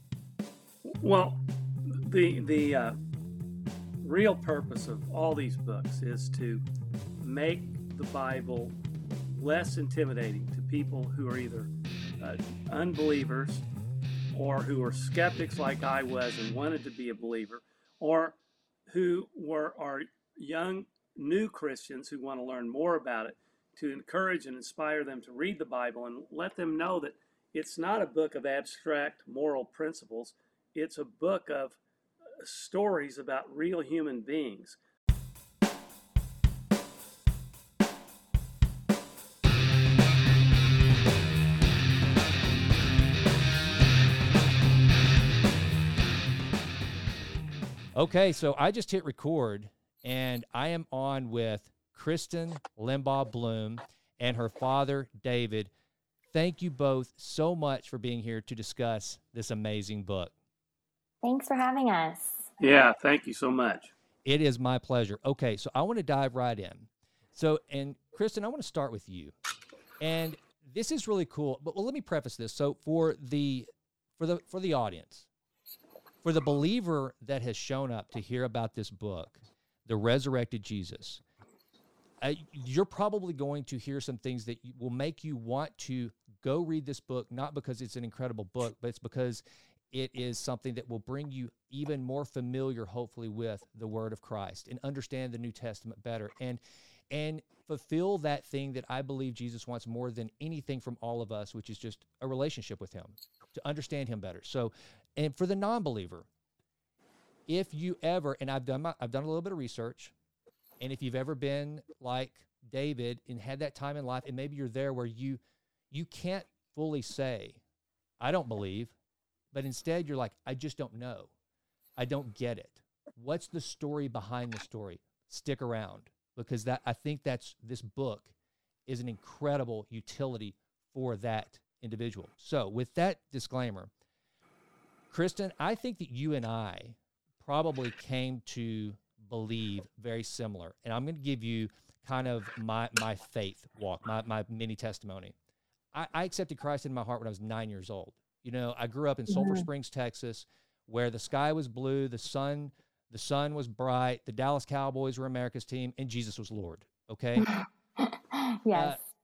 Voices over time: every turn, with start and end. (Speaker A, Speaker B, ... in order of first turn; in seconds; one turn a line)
Speaker A: 0.8-3.0
Speaker A: 4.0-6.6
Speaker A: 7.2-8.8
Speaker A: 9.3-13.6
Speaker A: 14.3-18.4
Speaker A: 18.9-31.8
Speaker A: 32.4-34.8
Speaker B: 48.0-55.7
Speaker B: 56.3-60.3
Speaker C: 61.2-62.5
Speaker A: 62.6-63.9
Speaker B: 64.2-69.3
Speaker B: 70.0-75.3
Speaker B: 76.2-81.2
Speaker B: 82.2-96.6
Speaker B: 97.1-106.3
Speaker B: 107.5-110.1
Speaker B: 110.8-115.4
Speaker B: 115.9-117.6
Speaker B: 118.2-118.9
Speaker B: 119.5-121.3
Speaker B: 122.0-128.3
Speaker B: 128.9-133.9
Speaker B: 135.1-145.3
Speaker B: 145.9-157.5
Speaker C: 149.3-149.7
Speaker C: 157.4-159.0
Speaker B: 158.7-159.0